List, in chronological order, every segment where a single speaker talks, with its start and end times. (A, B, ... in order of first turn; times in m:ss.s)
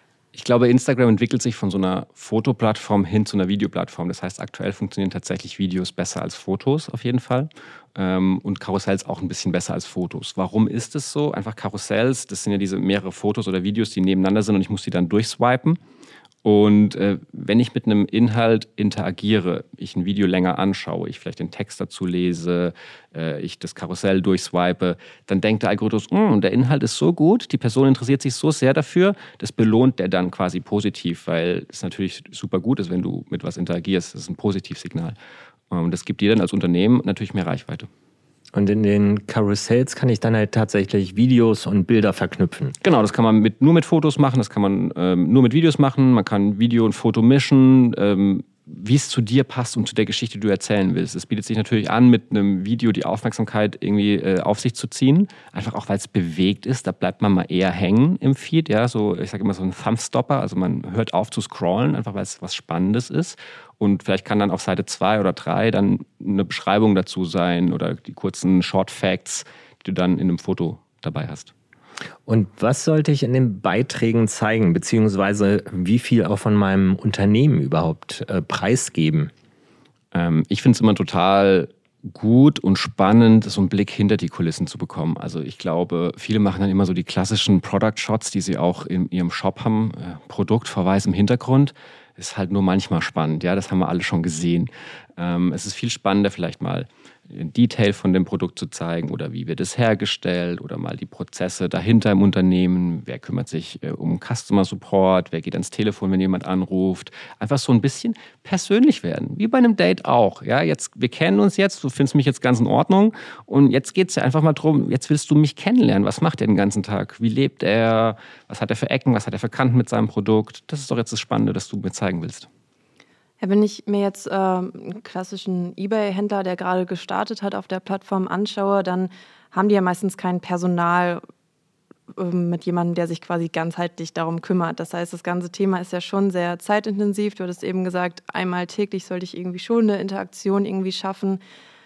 0:00.4-0:15.8 A
0:16.4-0:35.2 A
0:35.7-0:37.9 A
0:38.5-0:42.8 B
0:42.8-1:11.5 A
1:12.3-1:19.3 B
1:20.1-2:02.5 A
2:03.4-2:11.2 C
2:12.2-2:21.4 C